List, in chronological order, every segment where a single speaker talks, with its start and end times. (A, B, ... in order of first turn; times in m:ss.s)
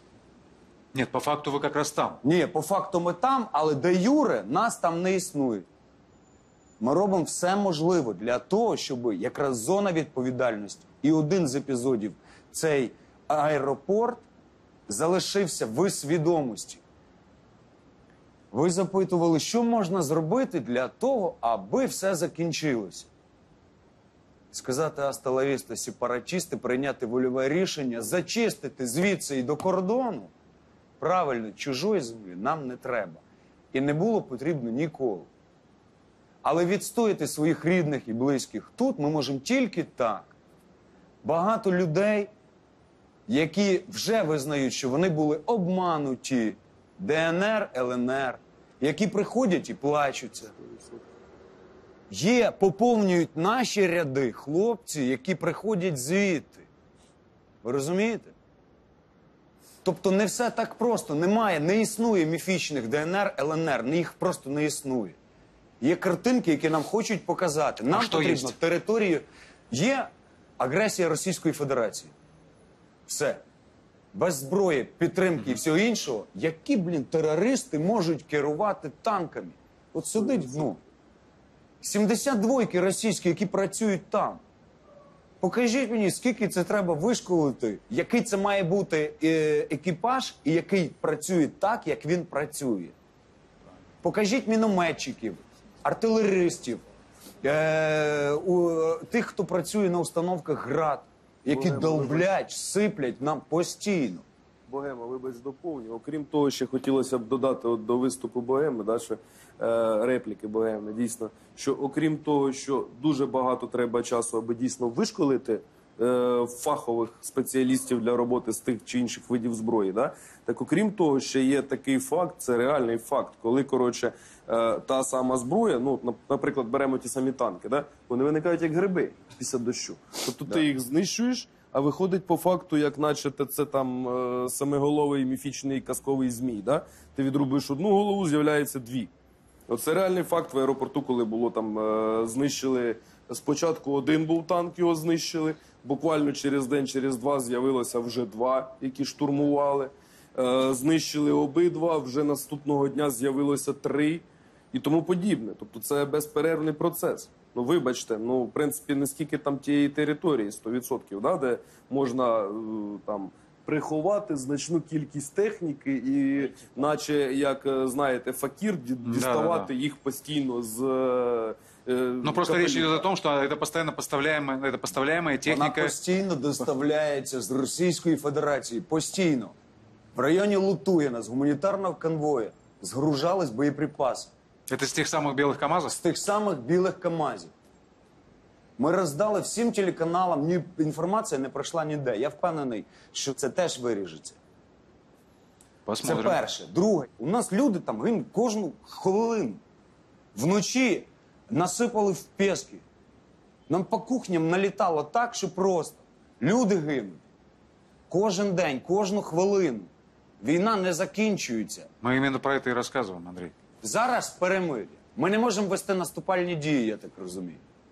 0:00.9-0:02.2 A
0:02.2-0:05.7 B
0:06.8-0:14.2 B
0:14.9-0:16.8 B
0:18.5-0:23.1 B
0:24.5-0:30.3 B
0:31.0-0:33.2 B
0:33.7-0:35.3 B
0:36.4-0:40.3 B
0:41.2-0:42.3 B
0:43.3-0:50.5 B
0:50.6-0:51.0 C
0:52.1-0:56.7 B
0:57.6-0:58.3 B
0:59.8-1:05.2 B
1:05.8-1:12.1 B
1:07.9-1:08.6 A
1:13.1-1:13.4 B
1:14.1-1:20.8 B
1:21.8-1:24.4 B
1:25.4-1:33.0 B
1:34.0-1:36.8 B
1:37.4-1:44.2 B
1:41.5-1:42.3 C
1:44.7-2:19.1 C
2:19.7-2:53.0 C
2:49.1-2:49.7 A
2:52.2-2:55.9 A
2:55.4-2:59.5 B
3:00.2-3:04.3 B
3:04.7-3:06.0 A
3:05.9-3:07.5 B
3:08.8-3:14.4 B
3:15.9-3:16.4 A
3:16.0-3:19.6 B
3:20.4-3:22.8 B
3:23.7-3:27.2 B
3:28.1-3:29.9 B
3:30.4-3:31.9 B
3:32.0-3:33.5 A
3:33.8-3:37.6 B